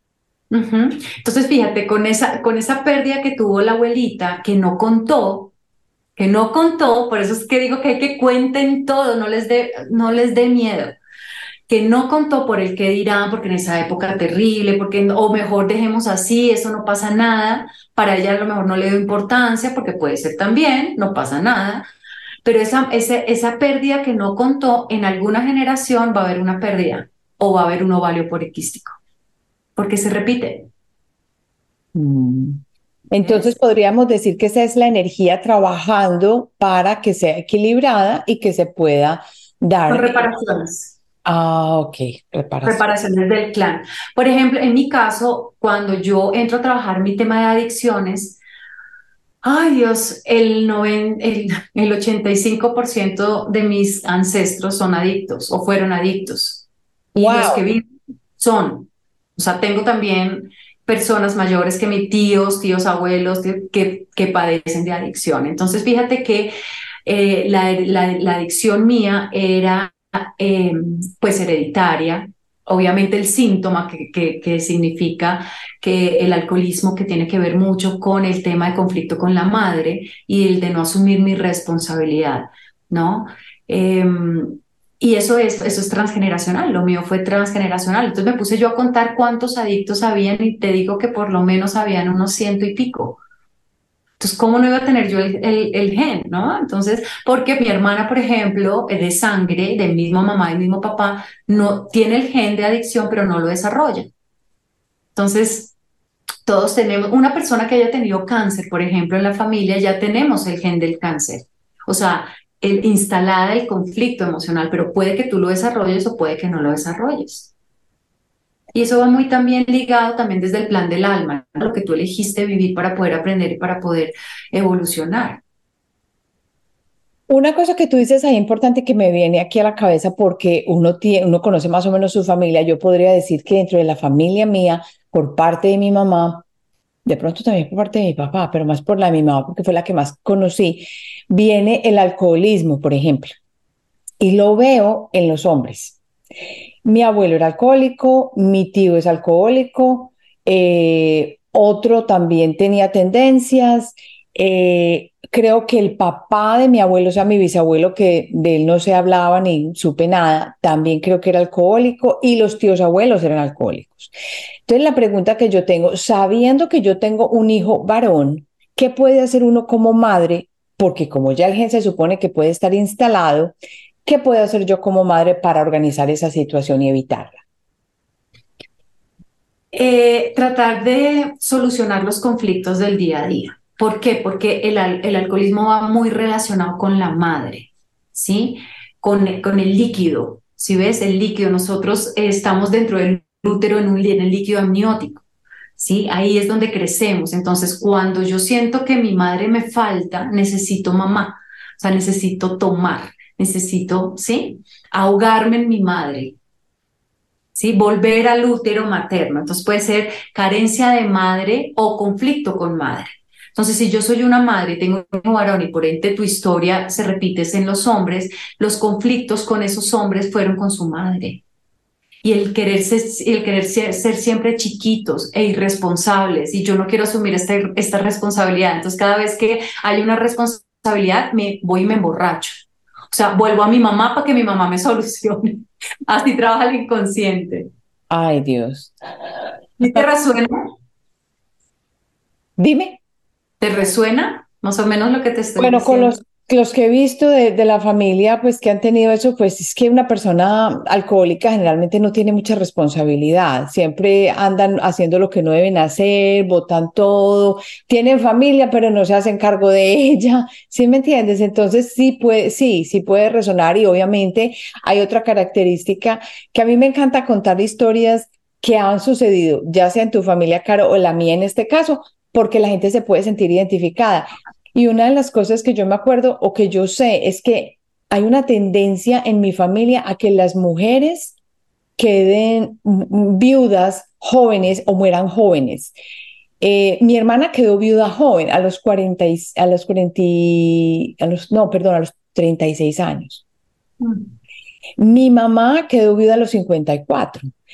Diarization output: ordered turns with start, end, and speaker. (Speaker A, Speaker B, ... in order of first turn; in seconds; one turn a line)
Speaker A: 0.5-5.5
Speaker A: 6.2-11.0
Speaker A: 11.7-21.8
Speaker A: 22.4-29.0
Speaker A: 29.8-30.7
Speaker B: 31.9-40.3
Speaker A: 33.2-33.5
Speaker A: 39.9-40.9
Speaker B: 41.2-42.9
Speaker A: 42.6-48.4
Speaker A: 49.4-56.6
Speaker B: 57.1-57.6
Speaker A: 57.2-57.9
Speaker A: 58.4-66.5
Speaker A: 67.0-93.2
Speaker A: 94.2-104.1
Speaker A: 105.2-105.7
Speaker A: 106.5-117.5
Speaker A: 118.7-125.4
Speaker B: 127.3-136.4
Speaker B: 137.1-143.3
Speaker B: 144.2-146.0
Speaker B: 146.8-164.1
Speaker B: 164.7-177.4
Speaker A: 179.7-195.2
Speaker A: 195.8-206.4
Speaker A: 207.6-221.4
Speaker A: 222.2-237.7
Speaker B: 238.1-238.9
Speaker A: 239.8-240.5
Speaker B: 242.6-243.0
Speaker A: 243.6-246.2
Speaker B: 245.6-281.4
Speaker B: 282.0-285.9
Speaker B: 286.6-293.4
Speaker B: 295.0-297.5